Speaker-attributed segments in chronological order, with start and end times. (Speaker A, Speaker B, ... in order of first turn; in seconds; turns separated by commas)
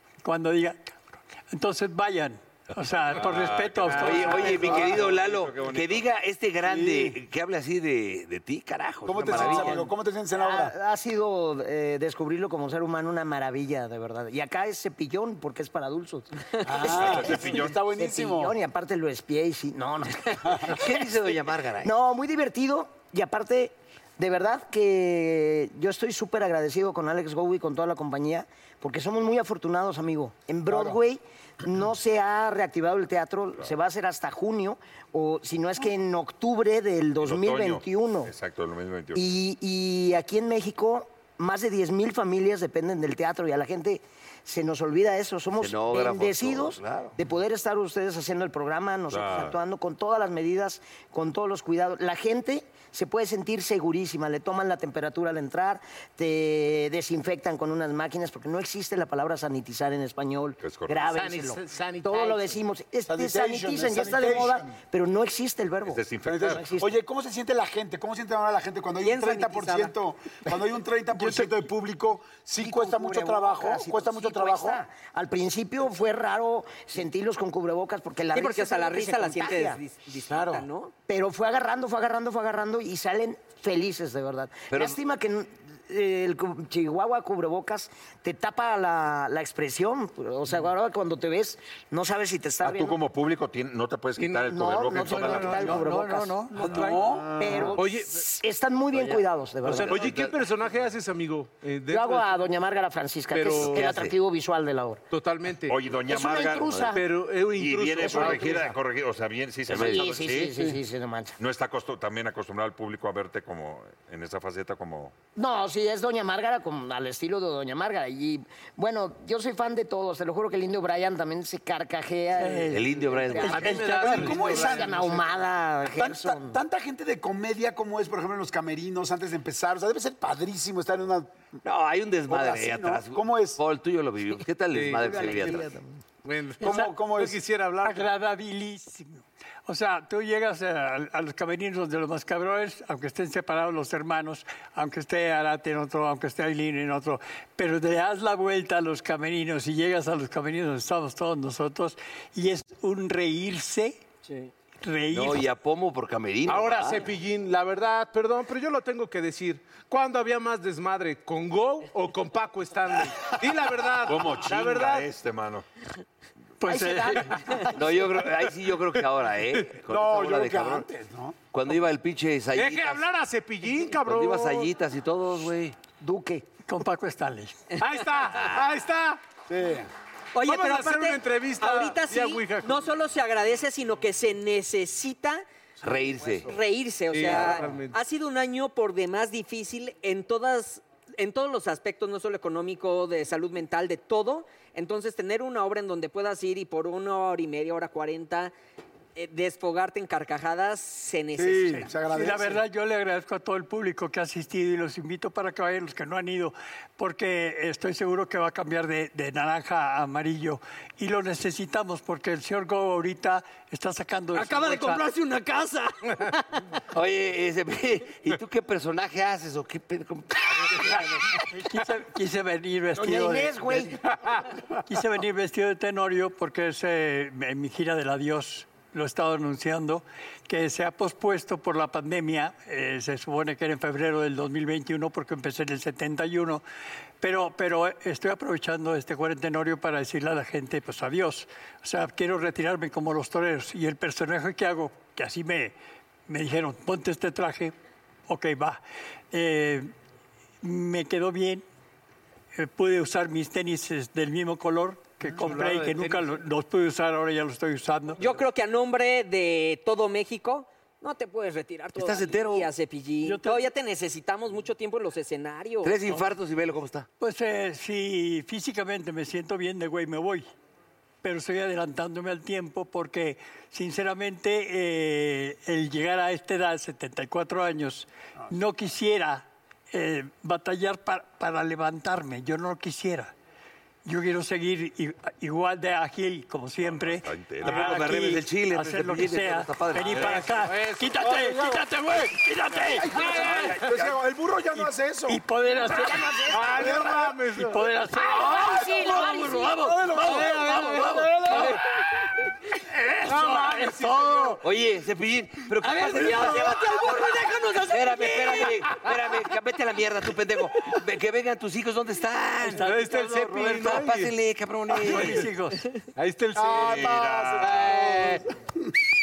Speaker A: 0.2-4.8, Speaker B: 3.1-6.1, Speaker C: 3.9-9.9, Speaker D: 4.1-4.8, Speaker E: 6.6-7.2, Speaker E: 9.1-10.7, Speaker B: 9.3-9.8, Speaker F: 10.3-21.1, Speaker E: 16.6-18.6, Speaker C: 16.9-17.2, Speaker B: 17.0-17.4, Speaker E: 20.4-20.8, Speaker C: 20.6-21.9, Speaker F: 21.8-38.3, Speaker E: 30.7-31.0, Speaker B: 37.2-39.2, Speaker F: 39.1-67.0, Speaker C: 45.6-47.1, Speaker B: 49.1-49.6, Speaker B: 60.6-61.1, Speaker D: 61.0-62.6, Speaker E: 63.1-64.8, Speaker B: 65.8-66.7, Speaker E: 66.2-74.8, Speaker G: 69.0-69.9, Speaker F: 72.6-79.8, Speaker G: 78.3-80.9, Speaker E: 80.3-80.6, Speaker F: 81.1-93.0, Speaker C: 84.7-85.0, Speaker B: 92.6-95.8, Speaker F: 94.2-96.5, Speaker A: 95.0-97.2, Speaker E: 96.5-97.8, Speaker F: 97.4-100.3, Speaker D: 97.7-98.2, Speaker C: 98.9-100.3, Speaker D: 99.7-102.5, Speaker F: 101.9-105.0, Speaker D: 103.3-103.9, Speaker C: 103.6-104.2, Speaker D: 105.1-105.8, Speaker B: 105.7-106.8, Speaker F: 106.0-107.0, Speaker C: 106.7-107.0, Speaker D: 106.9-108.7, Speaker B: 107.5-110.5, Speaker F: 108.0-108.8, Speaker C: 109.7-110.2, Speaker F: 109.7-111.4, Speaker E: 110.4-110.8, Speaker B: 111.4-115.1, Speaker F: 115.4-126.6, Speaker A: 122.3-124.3, Speaker C: 122.7-123.9, Speaker D: 123.3-125.5, Speaker E: 124.1-125.2, Speaker E: 125.8-131.4, Speaker C: 131.6-135.7, Speaker E: 132.3-133.6, Speaker D: 134.7-135.6, Speaker F: 135.0-135.9, Speaker D: 136.2-138.1, Speaker E: 136.6-137.4, Speaker A: 136.7-136.9, Speaker A: 137.8-154.0, Speaker A: 154.8-155.4, Speaker C: 155.1-157.0, Speaker D: 156.5-165.1, Speaker B: 164.1-165.7, Speaker A: 166.6-167.6, Speaker F: 166.7-168.1, Speaker C: 167.8-170.9, Speaker D: 168.7-169.0, Speaker E: 169.9-171.4, Speaker C: 171.5-173.1, Speaker D: 172.5-174.7, Speaker C: 173.8-175.8, Speaker F: 176.0-176.5, Speaker A: 176.7-177.7, Speaker D: 177.8-179.2, Speaker E: 179.5-179.9, Speaker G: 180.3-185.5, Speaker D: 180.4-183.0, Speaker C: 185.8-186.6, Speaker G: 186.4-198.5, Speaker D: 187.1-188.0, Speaker G: 199.2-201.9, Speaker E: 201.4-202.6, Speaker A: 202.0-215.1, Speaker G: 214.3-216.4, Speaker C: 216.9-221.1, Speaker A: 220.9-223.8, Speaker F: 223.0-224.0, Speaker D: 224.1-224.5, Speaker A: 224.9-236.6, Speaker A: 237.2-245.7, Speaker A: 246.3-247.8, Speaker A: 248.3-248.8, Speaker A: 249.3-249.9, Speaker A: 250.6-251.6, Speaker A: 252.6-258.2, Speaker D: 255.3-256.4, Speaker G: 258.2-265.9, Speaker C: 262.0-262.7, Speaker A: 263.2-263.6, Speaker C: 265.8-267.1, Speaker A: 267.2-270.5, Speaker A: 271.2-283.3, Speaker A: 284.1-293.6, Speaker B: 286.8-288.0, Speaker C: 287.6-290.4, Speaker D: 290.2-292.4, Speaker D: 292.9-294.0, Speaker E: 293.0-297.4, Speaker A: 294.8-296.5, Speaker D: 296.4-297.9, Speaker A: 297.6-301.8, Speaker E: 298.3-300.6, Speaker D: 298.5-298.8, Speaker G: 298.7-299.7, Speaker D: 300.1-301.8, Speaker C: 300.1-301.8, Speaker D: 303.2-304.6, Speaker A: 303.3-304.6, Speaker C: 304.6-307.4, Speaker A: 305.8-308.7, Speaker G: 306.0-306.5, Speaker C: 307.9-315.5, Speaker A: 312.7-314.0, Speaker D: 312.7-314.3, Speaker A: 314.9-315.8, Speaker D: 316.2-318.4, Speaker E: 316.6-318.4, Speaker B: 316.8-318.0